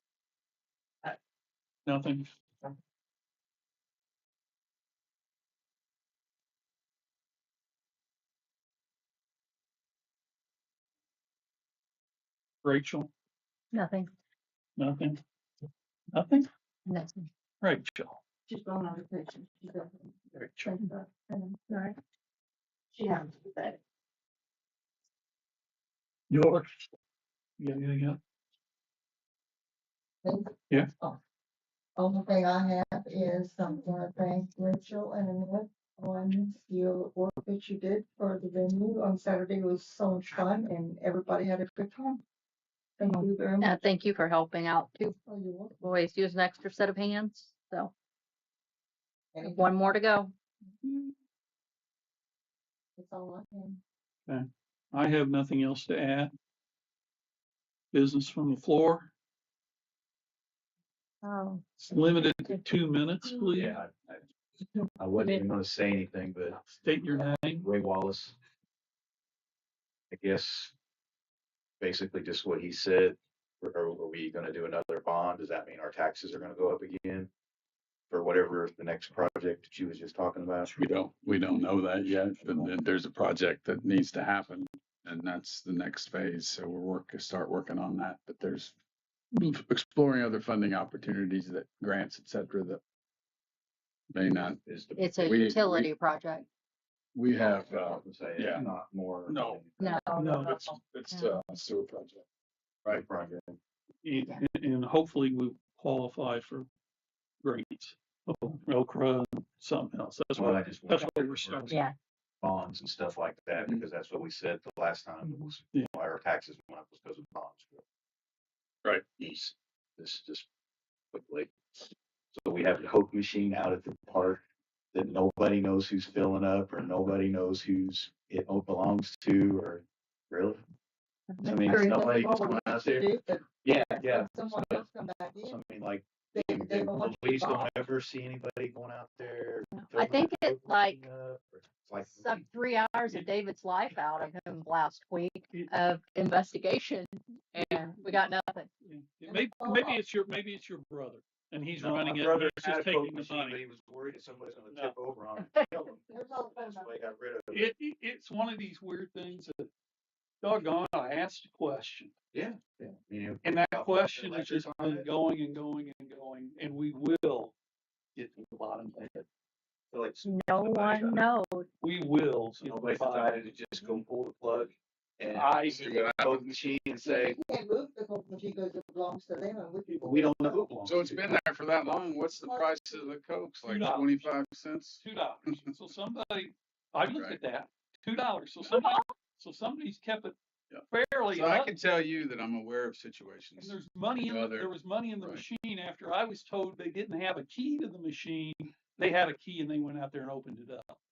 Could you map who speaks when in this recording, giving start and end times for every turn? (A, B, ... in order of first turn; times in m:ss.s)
0:01.9-0:02.3 A
0:12.6-0:13.1 A
0:13.7-0:14.1 B
0:14.8-0:15.2 A
0:16.1-0:16.5 A
0:16.9-0:17.3 B
0:17.6-0:18.2 A
0:18.5-0:21.8 C
0:20.3-0:20.8 A
0:22.9-0:23.8 C
0:26.3-0:26.7 A
0:27.6-0:28.2 A
0:30.2-0:31.2 C
0:32.0-0:42.2 C
0:43.0-0:43.8 C
0:43.1-0:45.2 B
0:45.2-0:45.9 C
0:45.8-0:47.9 B
0:49.3-0:50.0 C
0:49.6-0:50.3 B
0:53.0-0:53.8 C
0:54.3-0:56.3 A
0:57.9-0:59.1 A
1:01.2-1:02.6 B
1:01.8-1:03.8 A
1:03.5-1:04.2 D
1:04.8-1:05.4 B
1:05.0-1:06.6 D
1:06.6-1:07.7 A
1:07.6-1:08.4 D
1:10.1-1:10.7 D
1:11.8-1:17.3 D
1:18.1-1:20.7 D
1:20.7-1:28.7 E
1:29.3-1:32.8 E
1:34.1-1:34.6 E
1:34.4-1:35.6 D
1:35.0-1:36.5 B
1:35.2-1:35.9 E
1:37.1-1:38.7 E
1:37.3-1:39.9 D
1:39.3-1:39.6 E
1:39.8-1:40.0 B
1:39.8-1:40.3 C
1:40.1-1:40.6 A
1:40.3-1:42.2 E
1:40.7-1:41.4 B
1:42.8-1:43.6 D
1:44.0-1:46.7 A
1:47.4-1:51.8 A
1:50.3-1:51.8 D
1:52.4-1:57.8 D
1:55.3-1:55.9 A
1:58.9-2:00.5 D
2:01.1-2:01.5 D
2:02.3-2:10.6 D
2:11.4-2:13.0 D
2:11.6-2:13.4 C
2:13.6-2:14.8 D
2:14.0-2:15.6 C
2:15.5-2:22.4 D
2:16.3-2:17.7 C
2:19.7-2:21.0 B
2:22.0-2:28.7 B
2:27.6-2:28.2 A
2:28.8-2:33.6 A
2:29.2-2:30.0 C
2:31.8-2:37.7 D
2:34.7-2:35.0 A
2:35.4-2:35.7 B
2:36.0-2:36.9 C
2:37.5-2:39.7 A
2:40.4-2:42.1 A
2:42.3-2:45.1 D
2:43.4-2:47.5 A
2:48.1-2:49.2 A
2:49.9-2:50.3 D
2:50.2-2:51.7 B
2:50.6-2:51.2 A
2:51.8-2:53.5 A
2:52.6-2:57.4 D
2:55.3-2:56.0 A
2:55.6-2:56.7 E
2:57.0-3:00.7 C
3:00.0-3:01.4 D
3:00.8-3:05.6 E
3:02.4-3:02.7 C
3:03.6-3:04.3 A
3:05.0-3:10.3 A
3:07.1-3:07.4 E
3:08.7-3:09.0 B
3:10.7-3:15.4 E
3:10.9-3:11.8 A
3:13.6-3:21.0 A